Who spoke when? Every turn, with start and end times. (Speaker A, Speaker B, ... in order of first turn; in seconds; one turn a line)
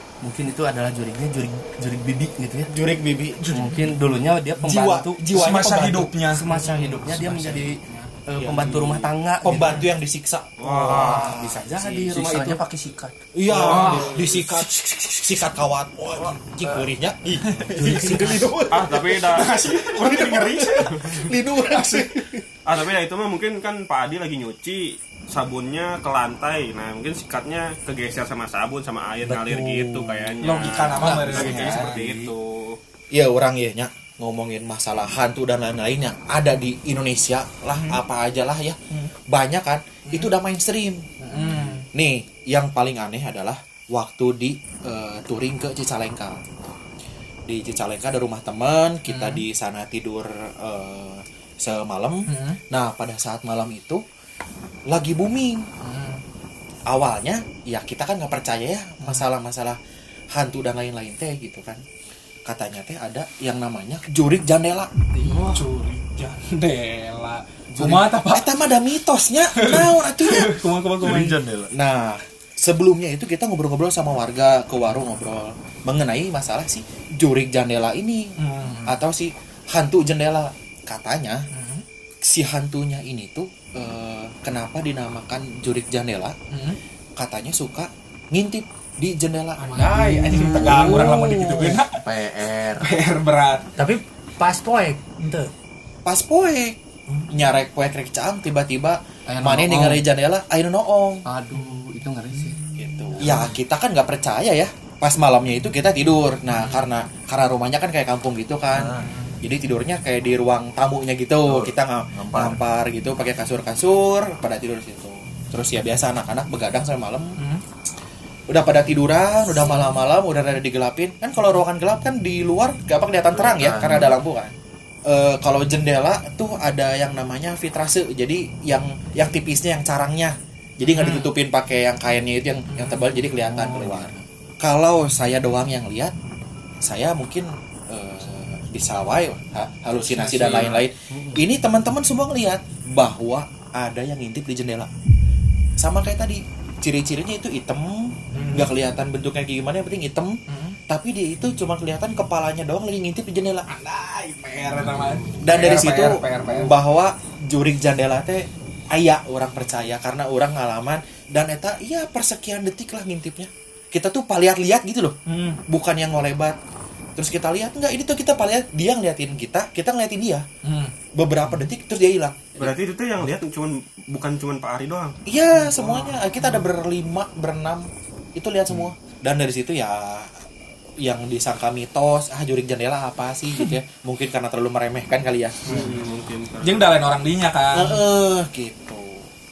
Speaker A: 0.2-2.7
Speaker B: 2.7-3.7
Speaker A: 3.5-5.5
Speaker C: 3.6-3.9
Speaker B: 4.6-6.1
Speaker C: 5.3-8.1
Speaker A: 6.3-9.9
Speaker B: 8.4-8.7
Speaker D: 8.5-9.0
Speaker B: 9.4-11.6
Speaker D: 10.6-11.4
Speaker A: 10.8-12.6
Speaker E: 12.1-13.2
Speaker B: 13.3-22.4
Speaker C: 13.5-14.6
Speaker D: 13.5-14.4
Speaker C: 17.4-18.5
Speaker F: 17.8-18.5
Speaker D: 18.7-19.5
Speaker C: 19.2-22.1
Speaker D: 20.8-21.3
Speaker D: 22.6-32.8
Speaker C: 30.4-32.0
Speaker B: 31.0-31.9
Speaker A: 31.0-32.3
Speaker B: 33.1-46.4
Speaker C: 37.7-38.0
Speaker C: 40.0-40.3
Speaker C: 41.2-41.9
Speaker B: 47.5-54.0
Speaker C: 49.0-49.4
Speaker C: 52.2-52.6
Speaker B: 54.9-55.7
Speaker C: 55.8-56.2
Speaker B: 56.9-59.8
Speaker C: 59.0-59.3
Speaker B: 60.3-61.8
Speaker B: 62.4-64.9
Speaker A: 65.2-65.6
Speaker C: 65.2-68.6
Speaker B: 67.8-70.6
Speaker C: 69.5-71.5
Speaker E: 71.0-71.7
Speaker B: 71.7-81.5
Speaker C: 78.4-79.0
Speaker C: 81.5-81.8
Speaker B: 82.2-86.3
Speaker C: 86.5-86.8
Speaker B: 87.2-91.2
Speaker C: 89.6-92.0
Speaker A: 89.8-91.8
Speaker C: 92.8-93.7
Speaker F: 93.8-95.5
Speaker B: 96.0-96.8
Speaker B: 97.3-101.2
Speaker A: 99.3-100.0
Speaker A: 101.2-102.6
Speaker C: 101.5-101.9
Speaker B: 102.8-117.4
Speaker C: 106.5-106.9
Speaker E: 108.7-109.1
Speaker C: 109.0-109.4
Speaker E: 111.4-112.6
Speaker C: 117.4-117.6
Speaker B: 118.5-124.5
Speaker E: 123.3-124.2
Speaker B: 125.0-136.1
Speaker C: 130.8-131.3
Speaker C: 132.7-134.1
Speaker B: 136.8-144.9
Speaker C: 139.9-140.9
Speaker B: 145.8-153.7
Speaker C: 148.3-148.7
Speaker C: 150.5-150.8
Speaker C: 153.7-156.8
Speaker B: 155.4-166.6
Speaker C: 165.3-165.6
Speaker B: 167.2-170.4
Speaker C: 170.6-170.9
Speaker B: 171.1-172.7
Speaker D: 172.6-175.2
Speaker B: 175.3-180.4
Speaker C: 175.5-176.7
Speaker B: 181.0-185.9
Speaker D: 185.7-186.9
Speaker C: 185.7-186.0
Speaker C: 186.6-188.0
Speaker B: 187.7-189.3